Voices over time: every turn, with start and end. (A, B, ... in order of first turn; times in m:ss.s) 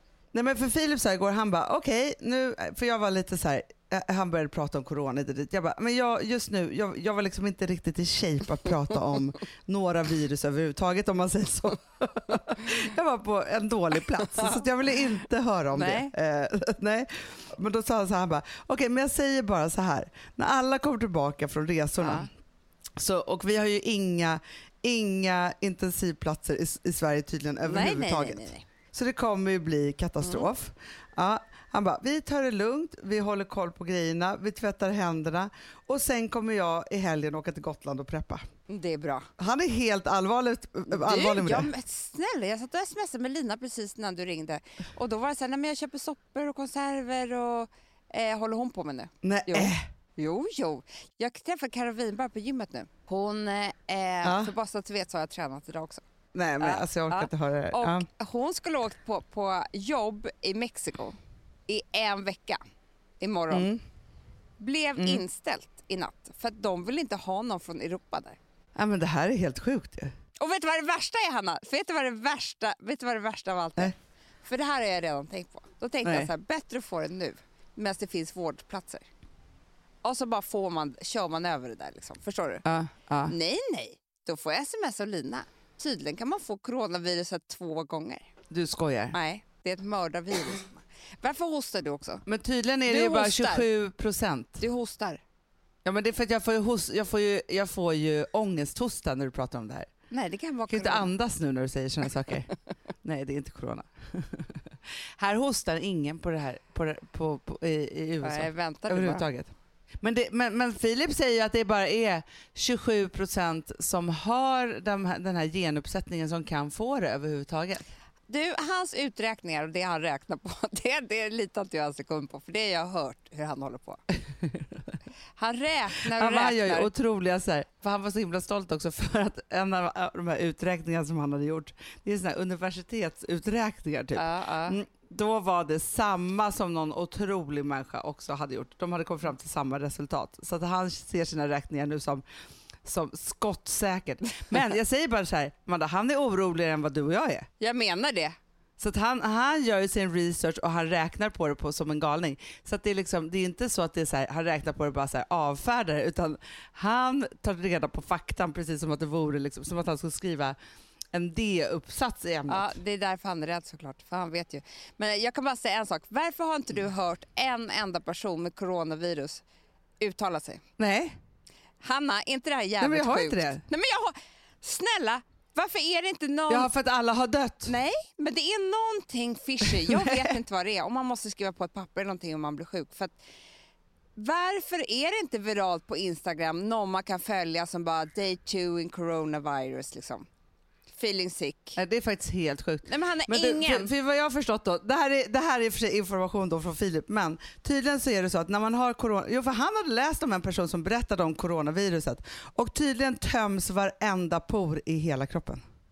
0:00.3-0:22.3 A
0:15.7-0:16.1 B
0:22.0-0:22.3 B
0:23.0-0:38.4 A
0:27.6-0:28.6 B
0:30.2-0:30.5 B
0:38.7-0:39.3 B
0:39.4-0:41.7 A
0:40.9-0:56.0 B
0:49.2-0:49.8 A
0:54.2-0:54.5 A
0:56.3-0:58.0 A
0:56.6-1:01.2 B
1:01.7-1:02.6 B
1:03.2-1:03.7 B
1:03.5-1:03.8 A
1:04.6-1:08.4 B
1:08.7-1:10.1 A
1:10.4-1:13.9 B
1:14.4-1:19.0 B
1:16.0-1:16.3 A
1:20.0-1:22.6 B
1:22.6-1:23.3 A
1:23.3-1:28.3 B
1:28.5-1:29.1 A
1:29.1-1:32.2 B
1:32.2-1:34.6 A
1:32.8-1:33.7 B
1:34.6-1:35.2 B
1:35.8-1:39.9 A
1:40.1-1:41.1 B
1:40.7-1:57.8 A
1:48.2-1:49.2 B
1:58.3-2:04.0 B
2:04.5-2:04.8 A
2:05.4-2:06.9 B
2:06.2-2:22.2 A
2:14.1-2:14.8 B
2:22.8-2:27.5 A
2:27.6-2:28.4 B
2:28.8-2:40.6 A
2:41.1-2:42.7 A
2:42.5-2:49.4 B
2:50.0-2:50.6 B
2:50.8-2:51.2 A
2:51.8-2:56.7 B
2:52.8-2:53.6 A
2:56.5-2:57.7 A
2:57.6-3:03.2 B
2:59.6-3:00.3 A
3:04.2-3:10.2 B
3:10.9-3:11.8 B
3:11.8-3:25.6 A
3:12.8-3:13.9 B